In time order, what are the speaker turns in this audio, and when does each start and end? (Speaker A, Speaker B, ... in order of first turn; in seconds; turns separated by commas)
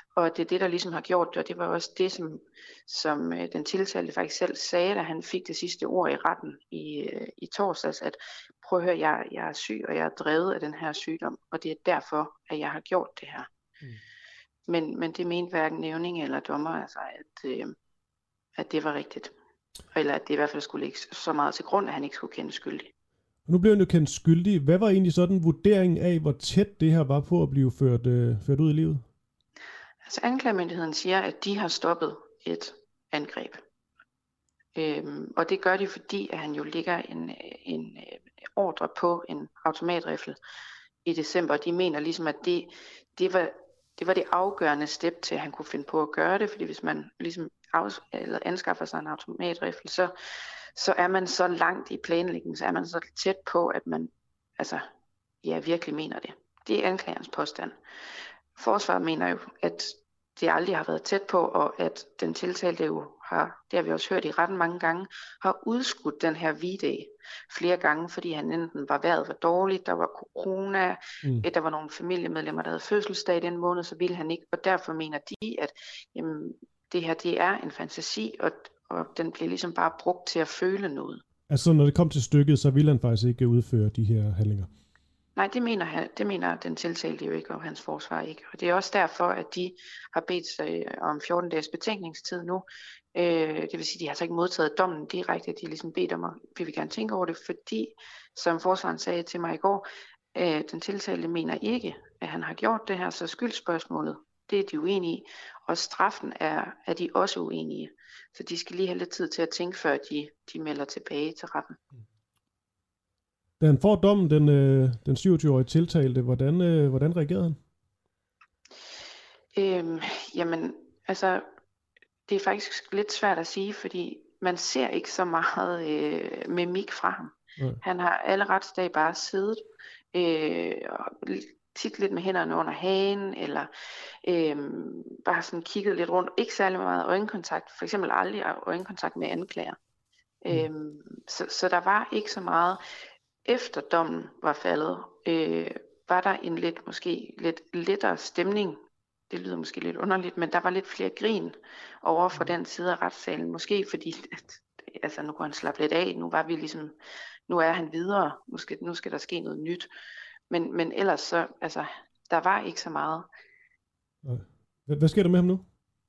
Speaker A: 0.2-13.5, Speaker A: 14.7-17.8, Speaker A: 18.6-19.3, Speaker A: 19.9-22.9, Speaker B: 23.5-29.0, Speaker A: 30.1-33.6, Speaker A: 34.8-40.4, Speaker A: 41.0-50.1, Speaker A: 50.8-54.9, Speaker A: 55.4-57.8, Speaker A: 58.6-81.2, Speaker B: 81.5-84.7, Speaker A: 85.3-111.8, Speaker B: 113.6-117.6, Speaker A: 119.5-121.5, Speaker A: 122.3-129.6, Speaker A: 130.1-133.7, Speaker A: 134.2-139.8, Speaker A: 140.4-142.8, Speaker A: 143.5-156.9, Speaker A: 157.5-159.9, Speaker A: 160.5-163.3, Speaker B: 164.2-165.6